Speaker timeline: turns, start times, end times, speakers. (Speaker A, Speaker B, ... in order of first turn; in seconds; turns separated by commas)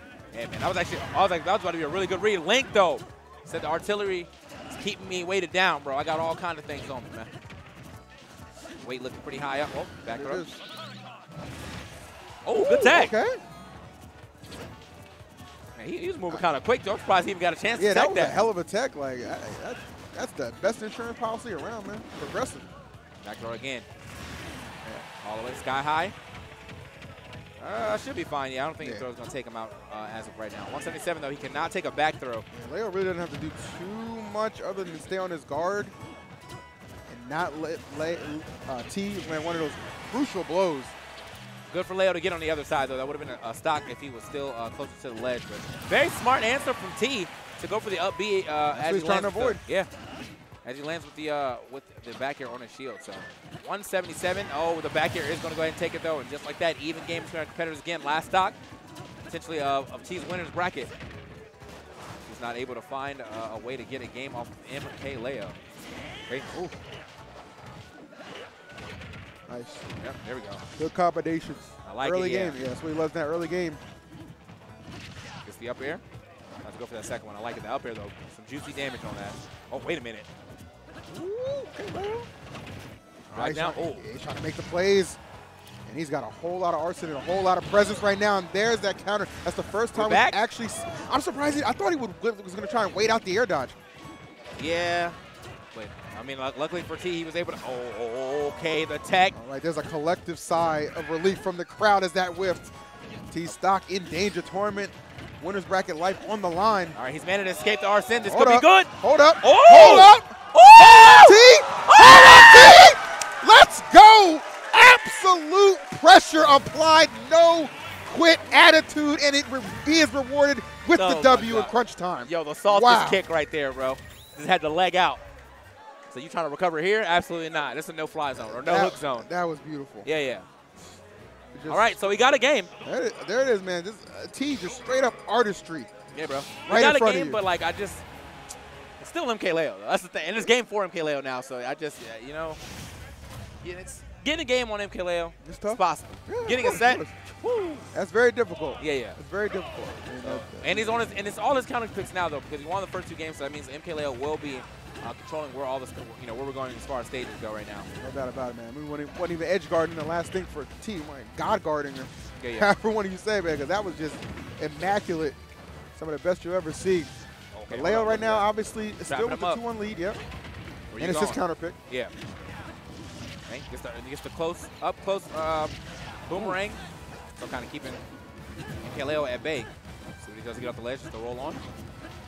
Speaker A: 0.3-7.3, Speaker A: 8.8-10.4, Speaker B: 10.1-10.6, Speaker A: 12.4-13.1, Speaker B: 12.6-13.4, Speaker A: 15.8-18.4, Speaker B: 17.7-22.7, Speaker A: 23.2-23.9, Speaker A: 25.2-26.1, Speaker A: 27.6-32.5, Speaker B: 28.8-29.1, Speaker B: 32.5-35.9, Speaker B: 37.1-40.9, Speaker A: 41.7-49.9, Speaker B: 48.7-49.6, Speaker A: 50.6-58.5, Speaker A: 59.3-60.9, Speaker A: 62.2-65.6, Speaker B: 69.5-69.9, Speaker A: 70.0-70.6, Speaker B: 70.8-73.8, Speaker A: 71.8-72.6, Speaker A: 75.4-76.0, Speaker A: 76.6-80.3, Speaker B: 81.1-82.3, Speaker A: 83.3-84.0, Speaker B: 83.3-85.2, Speaker B: 85.9-93.8, Speaker A: 89.9-90.4, Speaker A: 94.6-95.2, Speaker A: 95.7-99.3, Speaker B: 99.3-102.7, Speaker B: 103.3-107.0, Speaker A: 107.0-112.9, Speaker B: 108.2-123.2, Speaker A: 120.9-125.2, Speaker A: 126.1-129.3, Speaker B: 128.3-130.1, Speaker A: 130.0-130.5, Speaker B: 131.5-131.9, Speaker A: 131.7-132.7, Speaker B: 132.8-135.9, Speaker A: 136.1-138.0, Speaker B: 136.7-137.4, Speaker A: 139.0-142.6, Speaker A: 143.6-147.9, Speaker B: 145.4-147.1, Speaker B: 147.9-151.1, Speaker A: 148.8-149.2, Speaker A: 150.2-157.9, Speaker B: 158.0-165.4, Speaker A: 162.4-162.7, Speaker B: 165.9-167.1, Speaker A: 167.5-168.5, Speaker B: 167.7-170.2, Speaker A: 169.0-169.6, Speaker A: 170.9-172.1, Speaker B: 171.0-171.8, Speaker A: 173.5-175.7, Speaker A: 176.3-176.8, Speaker B: 176.3-176.6, Speaker A: 177.4-178.0, Speaker A: 178.8-179.7, Speaker A: 180.2-181.6